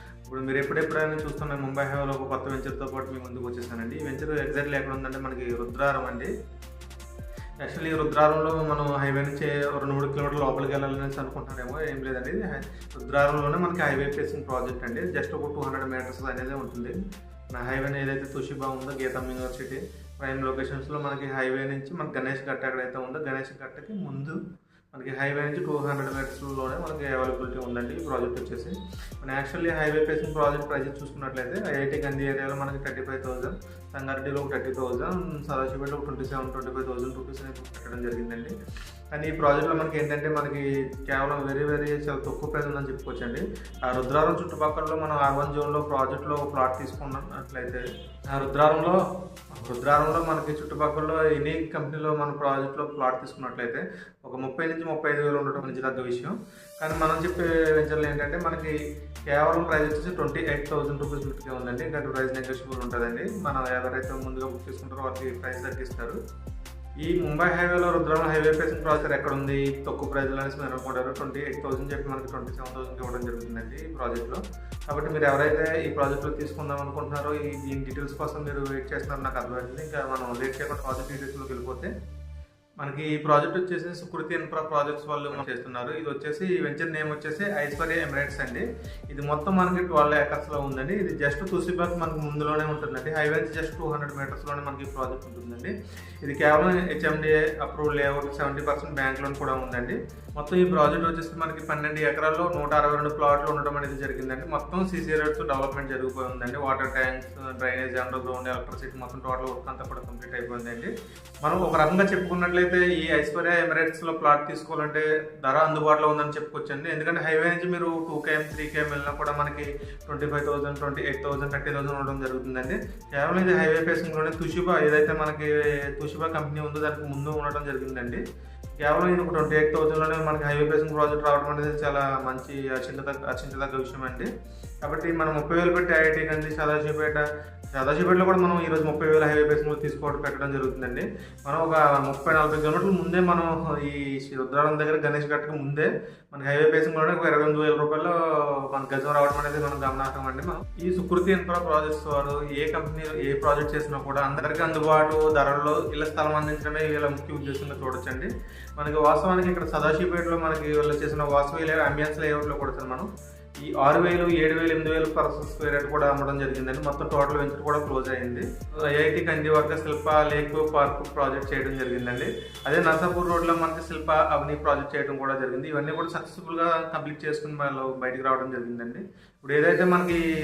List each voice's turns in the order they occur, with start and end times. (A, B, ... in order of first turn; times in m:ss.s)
0:00.3-0:06.3 A
0:07.6-0:16.9 A
0:17.6-0:24.4 A
0:24.9-0:38.5 A
0:39.1-0:49.0 A
0:49.6-0:58.8 A
0:59.3-1:06.2 A
1:07.0-1:21.9 A
1:22.8-1:50.9 A
1:51.4-2:08.2 A
2:08.8-2:14.3 A
2:14.8-2:43.1 A
2:43.6-3:00.2 A